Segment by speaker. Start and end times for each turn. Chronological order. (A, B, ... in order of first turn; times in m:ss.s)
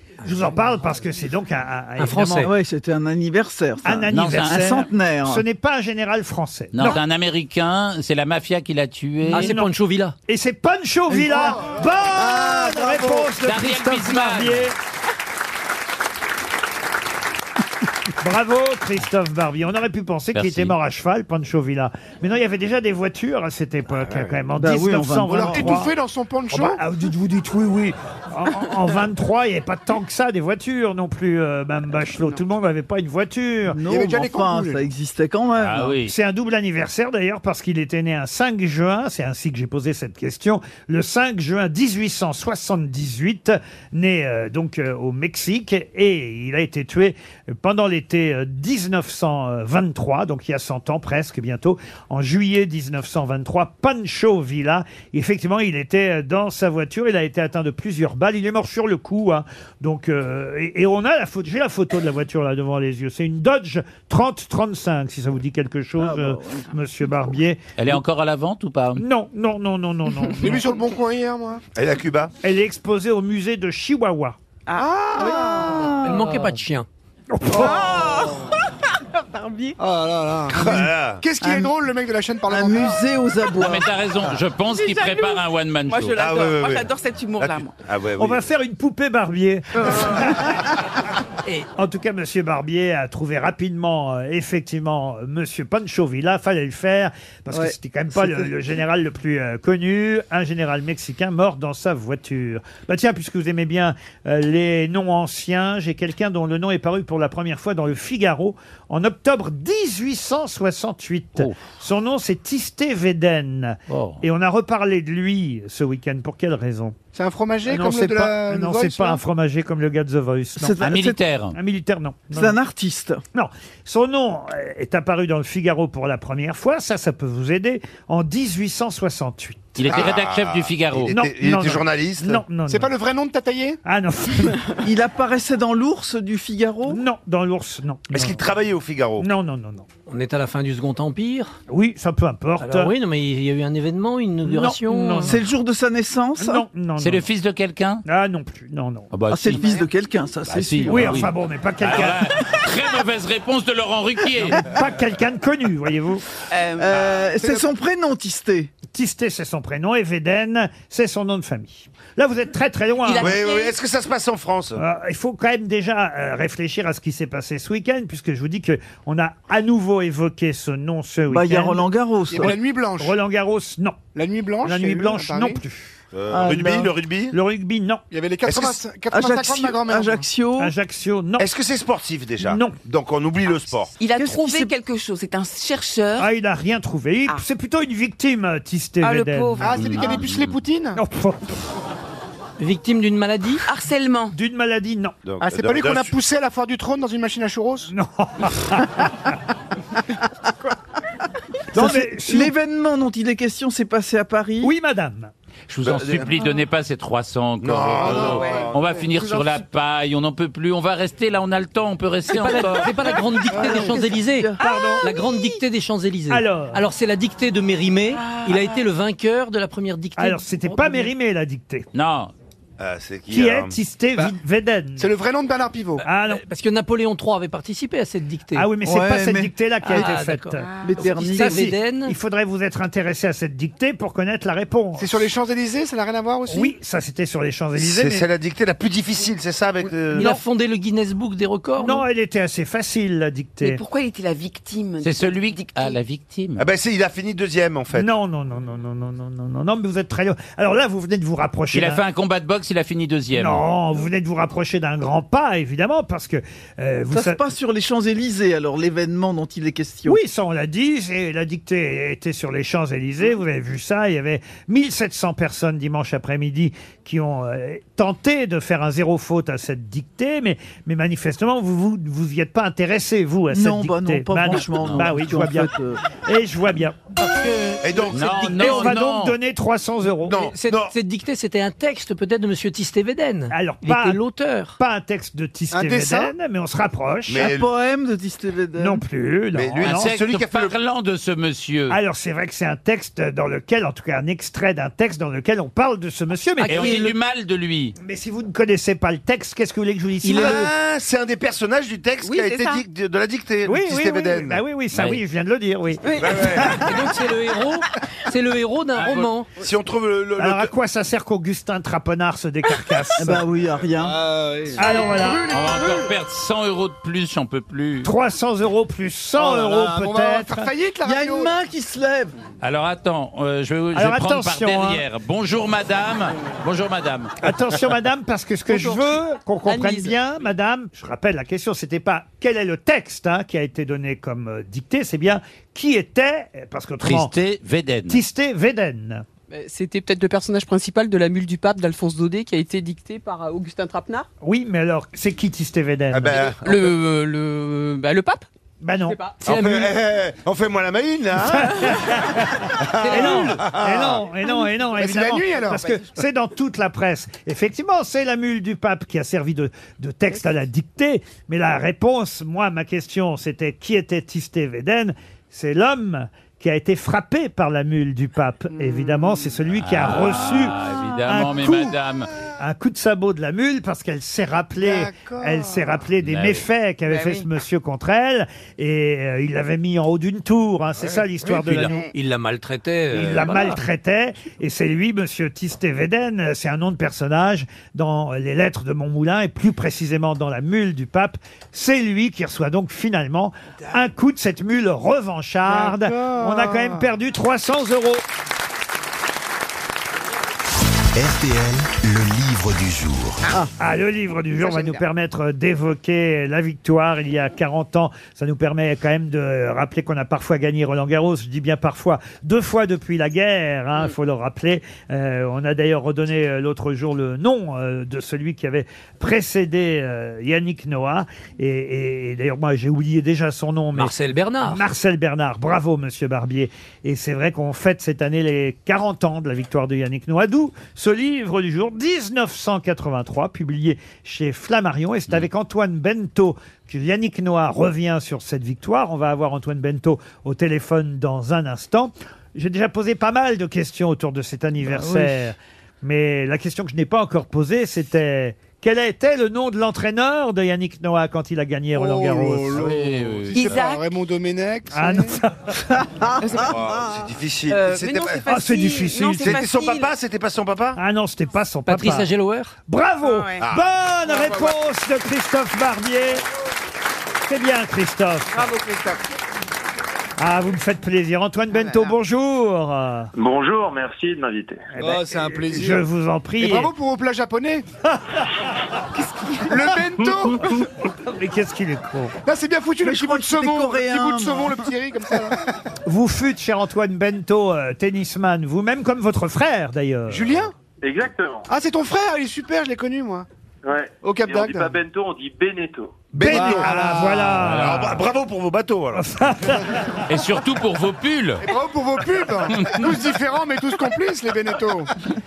0:00.2-0:02.5 A
0:02.0-0:02.5 B
0:02.4-0:05.4 C
0:03.8-0:07.0 A
0:04.1-0:04.7 D
0:06.7-0:09.6 D
0:09.3-0:10.2 B
0:09.3-0:09.7 A
0:10.3-0:14.7 A
0:11.1-0:13.3 C
0:11.3-0:11.8 E
0:13.4-0:14.7 D
0:18.2-0:25.9 A
0:20.3-0:20.8 D
0:24.0-0:24.3 F
0:24.6-0:25.9 C
0:25.3-0:26.8 E
0:26.5-0:33.8 A
0:32.2-0:32.4 G
0:33.7-0:36.0 C
0:33.8-0:34.8 E
0:35.6-0:36.1 D
0:36.0-1:08.0 A
1:06.0-1:06.6 C
1:07.8-1:09.0 D
1:09.0-1:10.7 A
1:10.4-1:11.6 E
1:11.8-1:12.3 F
1:12.4-1:14.4 A
1:14.7-1:15.9 G
1:14.8-1:16.0 E
1:15.2-1:16.4 C
1:16.0-1:16.9 B
1:17.3-1:18.1 A
1:17.5-1:18.2 G
1:19.4-1:19.7 G
1:19.8-1:23.0 E
1:20.5-1:21.2 F
1:21.4-1:21.7 C
1:22.5-1:23.9 C
1:23.6-1:26.2 D
1:24.6-1:27.7 G
1:26.1-1:28.4 F
1:28.2-1:30.6 A
1:29.8-1:30.3 G
1:31.8-1:57.0 A
1:37.5-1:38.5 C
1:53.9-1:54.2 D
1:57.1-1:59.2 E
1:57.6-2:00.8 A
2:00.6-2:01.2 C
2:00.8-2:01.6 D
2:01.5-2:02.6 A
2:02.3-2:03.2 C
2:03.3-2:09.8 A
2:09.7-2:11.1 D
2:09.8-2:12.4 F
2:11.1-2:12.9 A
2:12.7-2:13.8 E
2:13.8-2:14.6 A
2:14.8-2:17.0 C
2:16.9-2:18.4 A
2:18.1-2:19.3 F
2:19.2-2:19.9 A
2:20.1-2:21.5 B
2:21.7-2:22.9 A
2:22.6-2:25.0 B
2:24.4-2:25.4 A
2:25.2-2:26.6 C
2:26.4-2:27.3 A
2:27.0-2:28.0 D
2:28.0-2:29.1 A
2:29.1-2:29.7 D
2:29.3-2:31.3 C
2:29.5-2:29.8 G
2:30.4-2:34.7 D
2:30.9-2:32.3 A
2:34.4-2:36.2 A
2:36.5-2:37.1 G
2:36.8-2:38.7 C
2:37.4-2:37.7 E
2:38.9-2:43.4 A
2:43.0-2:43.7 G
2:43.2-2:44.8 F
2:44.8-2:51.8 A
2:51.3-2:52.5 C
2:52.3-2:53.2 E
2:52.4-2:54.0 A
2:54.1-2:55.6 E
2:54.6-2:55.9 A
2:56.1-2:57.4 F
2:56.3-2:56.9 C
2:57.3-2:58.0 A
2:58.1-3:00.3 E
2:58.5-2:58.7 F
2:59.1-3:00.7 C
3:00.6-3:01.5 A
3:01.4-3:03.9 F
3:02.4-3:02.8 A
3:04.0-3:06.3 G
3:04.2-3:04.7 C
3:06.2-3:10.1 A
3:09.0-3:10.2 G
3:09.6-3:11.0 E
3:10.0-3:10.4 D
3:11.0-3:11.5 A
3:12.6-3:13.6 B
3:13.6-3:14.3 G
3:14.3-3:15.2 A
3:15.2-3:16.1 F
3:15.4-3:17.9 E
3:17.9-3:19.1 A
3:21.7-3:22.5 A
3:21.7-3:24.7 C
3:24.6-3:25.3 A
3:25.7-3:32.9 D
3:25.8-3:26.3 F
3:27.6-3:28.7 F
3:27.9-3:29.6 E
3:28.3-3:28.7 G
3:32.3-3:41.1 B
3:33.4-3:35.5 C
3:33.5-3:33.9 E
3:34.6-3:35.2 A
3:36.3-3:36.8 A
3:38.1-3:38.9 G
3:40.2-3:41.9 A
3:41.9-3:42.3 D
3:42.8-3:44.2 F
3:43.3-3:45.1 A
3:45.0-3:46.0 E
3:46.0-3:46.4 A
3:46.2-3:48.7 B
3:48.5-3:55.3 A
3:48.8-3:50.0 C
3:49.8-3:52.2 B
3:50.6-3:51.0 G
3:50.8-3:51.7 C
3:55.0-3:56.8 E
3:56.5-3:58.3 A
3:57.8-4:00.4 F
4:00.1-4:02.1 B
4:01.8-4:03.8 A
4:03.6-4:06.0 G
4:05.0-4:06.6 D
4:06.6-4:08.1 F
4:07.9-4:12.0 A
4:11.7-4:13.6 D
4:13.3-4:17.4 A
4:17.1-4:20.2 C
4:20.0-4:37.0 A
4:33.5-4:36.0 C
4:34.6-4:35.0 D
4:37.2-4:39.0 B
4:37.8-4:38.6 F
4:38.1-4:39.4 D
4:38.5-4:40.5 A
4:40.2-4:40.9 F
4:40.3-4:44.8 B
4:43.5-4:44.2 A
4:44.8-4:47.5 A
4:45.7-4:46.3 E
4:47.3-4:47.7 F
4:47.3-4:49.0 C
4:48.8-4:50.1 A
4:49.5-4:50.7 F
4:49.8-4:52.0 D
4:51.9-4:57.1 A
4:56.6-4:57.1 B
4:56.6-4:57.9 D
4:58.0-5:00.7 A
5:00.2-5:00.7 B
5:00.3-5:04.6 F
5:02.2-5:02.8 G
5:03.6-5:06.8 A
5:04.9-5:05.2 D
5:06.2-5:06.8 F
5:06.7-5:09.5 B
5:08.9-5:09.3 D
5:09.6-5:10.7 F
5:10.4-5:13.4 A
5:13.2-5:14.2 C
5:14.0-5:16.0 E
5:14.8-5:15.5 A
5:15.4-5:18.1 D
5:18.0-5:20.7 A
5:19.3-5:21.5 E
5:21.0-5:22.3 C
5:22.6-5:27.4 D
5:23.9-5:25.0 A
5:27.4-5:37.3 A
5:28.7-5:29.1 H
5:29.7-5:30.2 H
5:37.0-5:38.2 D
5:38.1-5:39.2 A
5:39.5-5:44.2 H
5:44.4-5:46.5 A
5:46.1-5:46.9 F
5:46.6-5:48.4 H
5:48.8-5:49.2 A
5:49.1-5:49.4 H
5:49.4-5:51.9 F
5:49.5-5:49.9 B
5:51.4-6:12.0 A
5:52.8-5:54.2 F
5:53.0-5:53.5 B
5:54.9-5:55.9 E
6:08.7-6:09.5 E
6:09.8-6:12.3 D
6:12.6-6:22.1 A
6:14.8-6:15.9 E
6:16.2-6:16.7 D
6:21.4-6:23.8 B
6:23.1-6:38.2 A
6:35.6-6:37.0 E
6:41.1-6:43.4 I
6:43.8-7:32.8 A
6:44.6-6:45.0 G
7:03.9-7:04.8 B
7:24.8-7:25.4 C
7:31.9-7:35.3 E
7:32.8-7:33.8 D
7:33.5-7:34.0 G
7:34.9-7:35.9 A
7:36.0-7:37.1 C
7:36.4-7:36.8 G
7:36.6-7:38.4 F
7:37.7-7:40.1 G
7:38.5-7:39.6 A
7:39.4-7:41.0 F
7:41.0-7:42.3 A
7:41.8-7:42.7 B
7:42.8-7:46.4 A
7:43.2-7:43.7 G
7:43.6-7:43.8 F
7:44.2-7:44.8 G
7:47.4-7:48.7 A
7:48.5-7:49.2 G
7:50.4-7:53.3 A
7:51.7-7:52.1 G
7:53.3-7:54.9 J
7:54.9-7:56.9 A
7:55.0-7:56.0 E
7:56.6-7:57.8 E
7:58.1-7:58.5 A
7:59.1-8:00.0 G
7:59.6-8:00.7 E
8:00.2-8:00.8 J
8:01.2-8:02.3 A
8:02.4-8:05.6 E
8:03.0-8:04.9 C
8:06.0-8:10.6 A
8:10.3-8:10.7 E
8:11.0-8:11.7 J
8:11.7-8:13.4 E
8:13.8-8:16.4 J
8:14.2-8:14.9 E
8:16.3-8:18.2 A
8:16.3-8:19.2 F
8:16.4-8:17.1 E
8:17.6-8:18.2 D
8:19.2-8:20.2 A
8:20.3-8:21.6 D
8:21.6-8:25.1 E
8:22.7-8:23.1 D